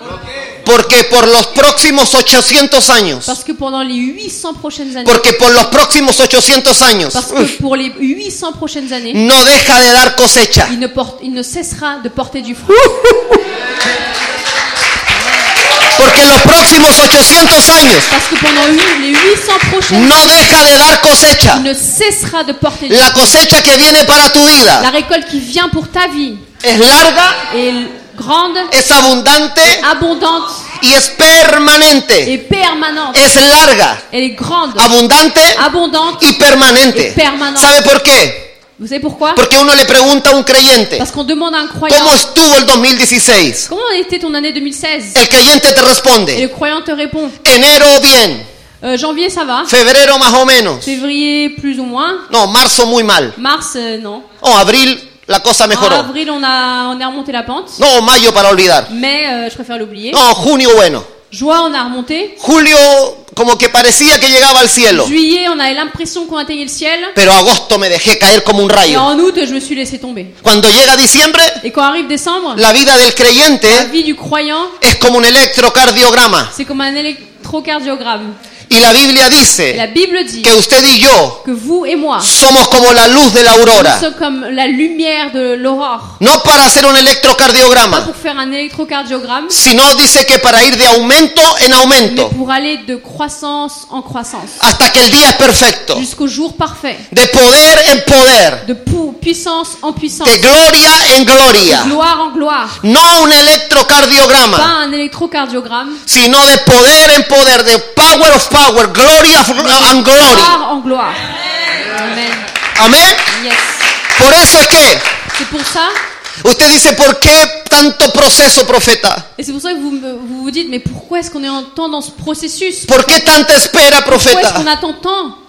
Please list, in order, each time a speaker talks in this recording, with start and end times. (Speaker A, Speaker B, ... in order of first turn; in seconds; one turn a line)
Speaker A: 0.6-3.3
Speaker B: 3.2-5.3
Speaker A: 5.0-7.5
Speaker B: 7.1-9.2
Speaker A: 9.1-10.7
Speaker B: 10.7-13.3
Speaker A: 16.0-18.1
Speaker B: 18.1-20.6
Speaker A: 19.9-21.7
Speaker B: 21.5-23.4
Speaker A: 22.9-24.9
Speaker B: 24.8-26.4
Speaker A: 26.6-27.4
Speaker B: 27.5-28.7
Speaker A: 28.7-29.9
Speaker B: 29.6-30.7
Speaker A: 30.8-32.3
Speaker B: 32.2-33.2
Speaker A: 33.1-34.0
Speaker B: 34.1-34.9
Speaker A: 34.8-35.7
Speaker B: 35.5-36.2
Speaker A: 36.2-38.5
Speaker B: 36.9-37.7
Speaker B: 38.8-39.4
Speaker A: 39.4-41.0
Speaker B: 41.0-42.2
Speaker A: 41.9-43.7
Speaker B: 43.7-45.2
Speaker A: 45.1-46.4
Speaker B: 46.3-47.4
Speaker A: 47.4-48.4
Speaker B: 48.8-49.7
Speaker A: 49.7-50.9
Speaker B: 50.8-52.3
Speaker A: 52.3-53.4
Speaker B: 53.4-54.3
Speaker A: 54.4-56.1
Speaker B: 55.7-57.8
Speaker A: 57.8-58.9
Speaker B: 58.9-60.2
Speaker A: 60.1-61.1
Speaker B: 61.3-62.4
Speaker A: 62.4-65.1
Speaker B: 64.9-67.2
Speaker A: 67.1-69.1
Speaker B: 68.8-70.4
Speaker A: 70.4-71.6
Speaker B: 71.6-72.6
Speaker A: 72.5-73.9
Speaker B: 73.7-74.8
Speaker A: 74.8-76.5
Speaker B: 76.5-78.4
Speaker A: 78.7-79.8
Speaker B: 79.7-80.6
Speaker A: 80.4-81.4
Speaker B: 81.4-82.3
Speaker A: 82.2-84.0
Speaker B: 83.7-86.2
Speaker A: 86.2-88.1
Speaker B: 87.9-89.6
Speaker A: 89.5-92.3
Speaker B: 92.0-94.6
Speaker A: 94.6-96.0
Speaker B: 95.9-97.1
Speaker A: 97.1-98.6
Speaker B: 98.6-100.4
Speaker A: 100.2-102.0
Speaker B: 101.6-102.8
Speaker A: 102.8-104.7
Speaker B: 104.5-106.0
Speaker A: 106.1-110.6
Speaker B: 109.6-111.3
Speaker B: 111.8-112.5
Speaker A: 112.7-113.3
Speaker B: 113.3-113.9
Speaker A: 114.1-115.0
Speaker B: 115.3-115.9
Speaker A: 116.4-119.3
Speaker B: 119.4-123.3
Speaker A: 122.9-124.7
Speaker B: 124.1-125.4